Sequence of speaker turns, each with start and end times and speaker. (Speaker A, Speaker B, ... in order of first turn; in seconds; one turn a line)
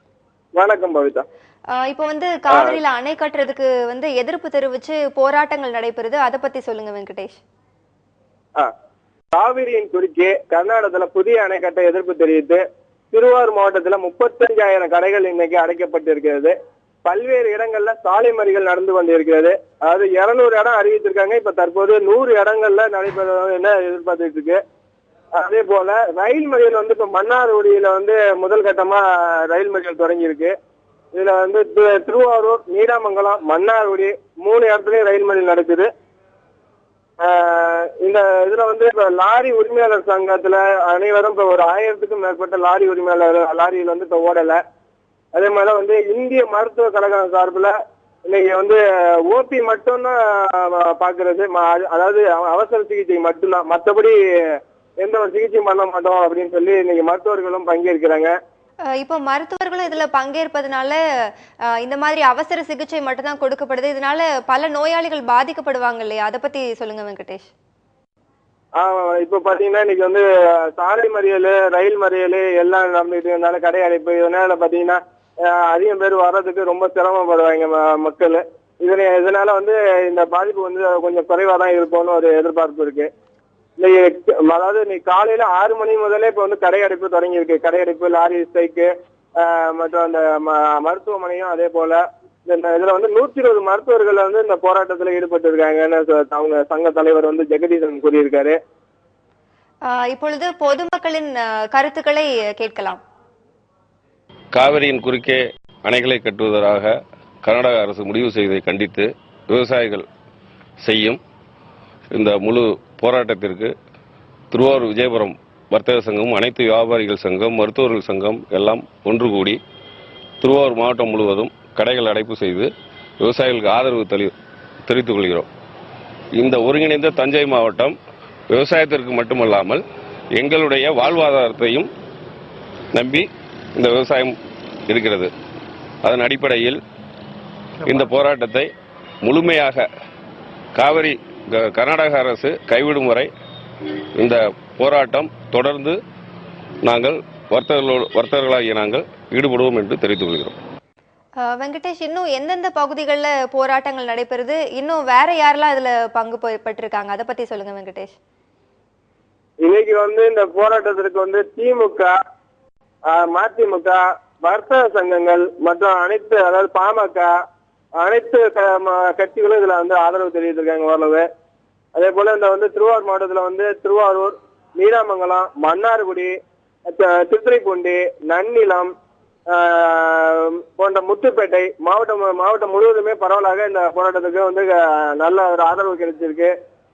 Speaker A: 0.6-1.2
Speaker B: 1.7-7.4
Speaker A: 9.3-24.6
Speaker A: 25.4-30.5
Speaker A: 31.1-35.9
Speaker A: 37.2-44.6
Speaker A: 45.3-47.7
Speaker A: 48.3-58.3
Speaker B: 59.0-61.0
Speaker B: 61.8-67.5
Speaker A: 68.8-83.1
Speaker A: 83.8-98.6
Speaker B: 99.8-103.0
Speaker C: 104.5-106.9
Speaker C: 107.4-110.1
Speaker C: 110.8-111.2
Speaker C: 112.1-113.7
Speaker C: 114.5-119.6
Speaker C: 120.4-122.7
Speaker C: 123.2-124.3
Speaker C: 124.9-125.5
Speaker C: 126.4-128.0
Speaker C: 128.5-129.8
Speaker C: 130.3-131.9
Speaker C: 132.9-134.4
Speaker C: 134.9-135.3
Speaker C: 136.0-136.8
Speaker C: 137.9-138.7
Speaker C: 139.2-139.9
Speaker C: 140.8-143.3
Speaker C: 144.2-146.0
Speaker C: 146.8-150.6
Speaker B: 151.4-158.2
Speaker A: 159.6-162.1
Speaker A: 163.1-167.3
Speaker A: 168.0-171.3
Speaker A: 171.9-176.3
Speaker A: 176.9-178.9
Speaker A: 179.5-186.5